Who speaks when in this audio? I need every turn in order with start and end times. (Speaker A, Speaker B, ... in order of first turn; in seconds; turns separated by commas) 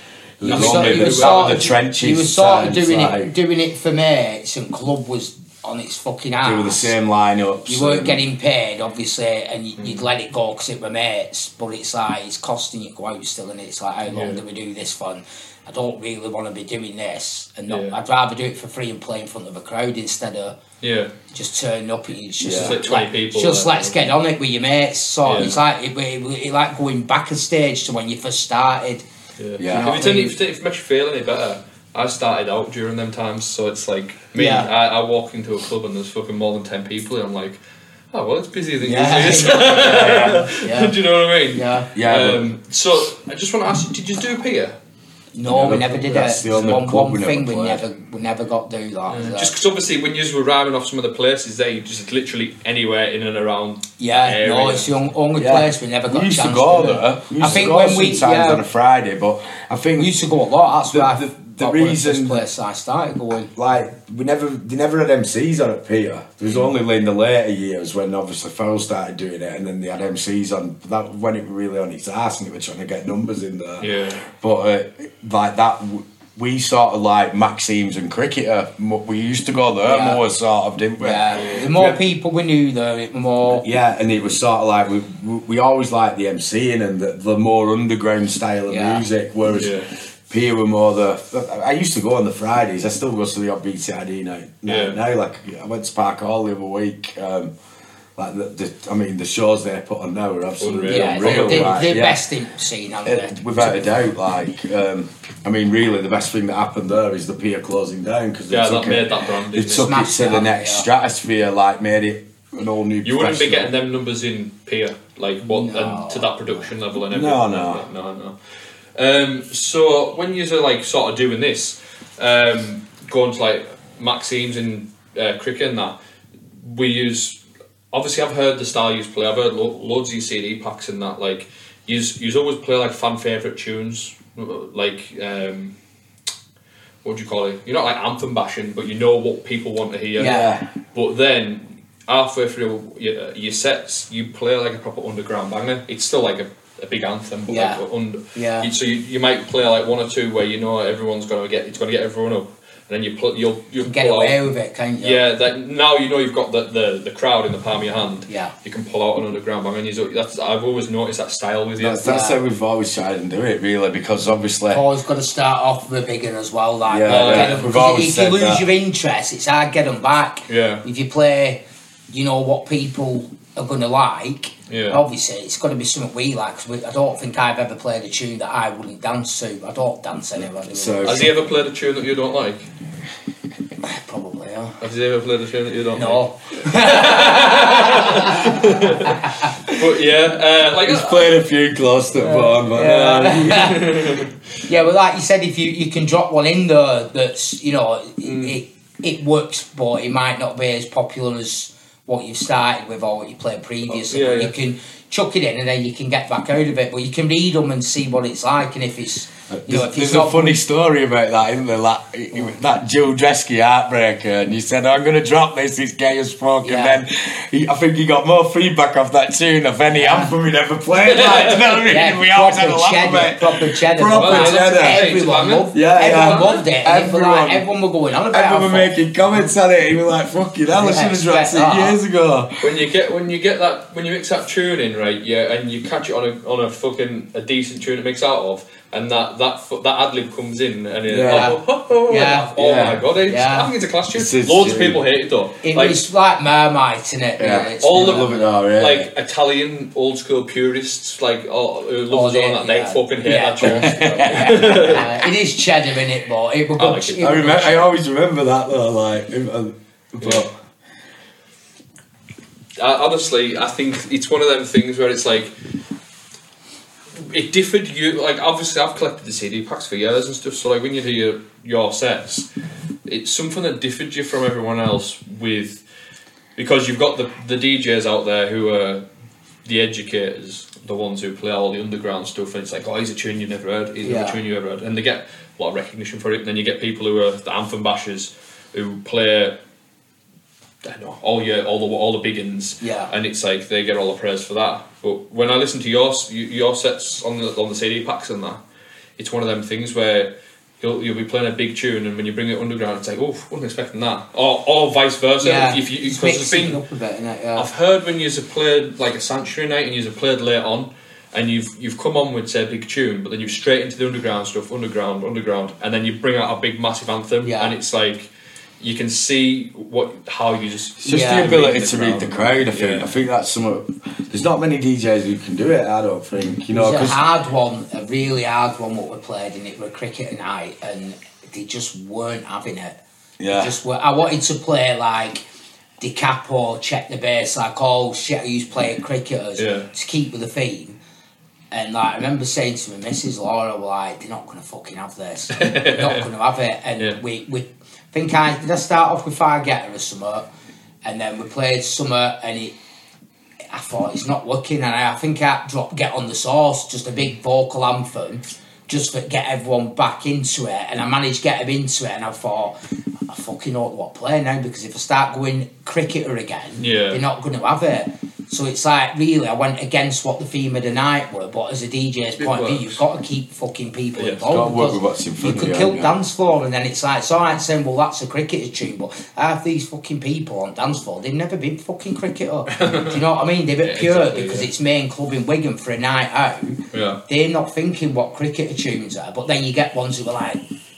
Speaker A: 0.4-3.3, Speaker B: 0.4-6.9, Speaker C: 0.4-1.7, Speaker A: 6.4-8.2, Speaker B: 7.7-20.6, Speaker C: 9.8-10.1, Speaker C: 14.1-14.4, Speaker C: 17.7-18.0, Speaker C: 20.8-21.1, Speaker B: 21.3-29.1, Speaker A: 22.4-22.8, Speaker C: 22.5-24.1, Speaker C: 25.2-25.6, Speaker C: 29.4-37.6, Speaker A: 29.6-30.0, Speaker B: 29.6-30.4, Speaker B: 34.4-34.7, Speaker C: 38.1-44.8, Speaker B: 38.8-41.0, Speaker B: 41.5-41.9, Speaker A: 41.9-42.5, Speaker B: 45.4-49.5, Speaker A: 45.5-47.8, Speaker C: 49.1-55.0, Speaker B: 54.0-58.6, Speaker A: 55.4-60.2, Speaker C: 57.4-57.7, Speaker B: 60.0-63.5, Speaker A: 60.8-62.4, Speaker A: 63.5-82.0, Speaker C: 73.8-74.2, Speaker B: 79.8-80.2, Speaker B: 81.0-83.7, Speaker C: 81.3-81.7, Speaker A: 83.5-97.5, Speaker B: 88.7-89.0, Speaker C: 89.5-89.9, Speaker C: 94.7-95.0, Speaker A: 98.2-102.2, Speaker C: 100.6-102.0, Speaker B: 100.9-103.8, Speaker A: 103.0-113.7, Speaker C: 108.5-110.1, Speaker B: 109.7-110.9, Speaker C: 113.0-118.4, Speaker B: 115.5-116.4, Speaker A: 117.1-117.9, Speaker C: 119.0-126.0, Speaker C: 126.6-127.4, Speaker C: 127.9-135.8, Speaker C: 137.0-162.1, Speaker B: 140.2-140.6, Speaker A: 140.2-140.7, Speaker B: 147.5-147.8, Speaker B: 148.3-148.7, Speaker B: 153.8-155.2, Speaker B: 158.3-158.5, Speaker A: 161.8-164.8, Speaker B: 162.0-162.4, Speaker B: 164.7-181.3, Speaker A: 166.9-168.7, Speaker C: 167.1-167.7, Speaker C: 170.5-170.8, Speaker C: 174.7-175.0, Speaker A: 180.7-181.3, Speaker C: 181.0-182.7, Speaker B: 183.8-184.8, Speaker C: 184.8-191.4, Speaker B: 185.9-189.5, Speaker A: 190.8-194.1, Speaker B: 192.2-194.1, Speaker C: 193.6-194.3, Speaker B: 194.7-210.6, Speaker C: 198.2-198.6, Speaker C: 203.9-204.5, Speaker A: 209.5-225.1, Speaker B: 216.6-217.0, Speaker B: 219.9-220.3, Speaker C: 221.1-221.6, Speaker B: 221.9-229.0, Speaker C: 224.1-226.6, Speaker A: 225.7-227.7, Speaker A: 228.3-232.7, Speaker B: 230.7-232.0, Speaker C: 232.6-246.0, Speaker A: 241.1-241.6, Speaker B: 241.3-242.5, Speaker A: 242.6-243.1, Speaker B: 243.3-243.7, Speaker A: 244.1-245.0, Speaker B: 245.6-248.5, Speaker A: 247.4-249.1, Speaker C: 247.8-255.2, Speaker B: 252.1-257.9, Speaker A: 253.6-255.0, Speaker C: 256.8-257.6, Speaker A: 257.2-260.5, Speaker C: 260.2-260.5, Speaker C: 262.8-265.5, Speaker C: 267.2-272.5, Speaker C: 273.1-275.8, Speaker C: 276.6-279.1, Speaker C: 279.6-289.6, Speaker B: 284.0-284.4, Speaker C: 290.8-298.6, Speaker B: 292.8-293.1, Speaker C: 299.2-306.8, Speaker B: 305.4-307.7, Speaker C: 307.6-323.1, Speaker B: 317.4-317.8, Speaker A: 321.0-327.2, Speaker B: 321.1-321.5, Speaker B: 326.7-335.4, Speaker A: 333.4-333.8, Speaker B: 336.0-341.0, Speaker C: 339.6-339.9, Speaker B: 341.7-350.5, Speaker C: 345.5-346.3, Speaker B: 351.0-352.8, Speaker B: 353.7-362.8, Speaker B: 363.3-390.6, Speaker C: 366.8-367.2, Speaker C: 372.4-373.0, Speaker C: 374.2-374.6, Speaker A: 374.5-376.2, Speaker C: 382.7-383.2, Speaker C: 383.8-384.7, Speaker C: 386.9-387.2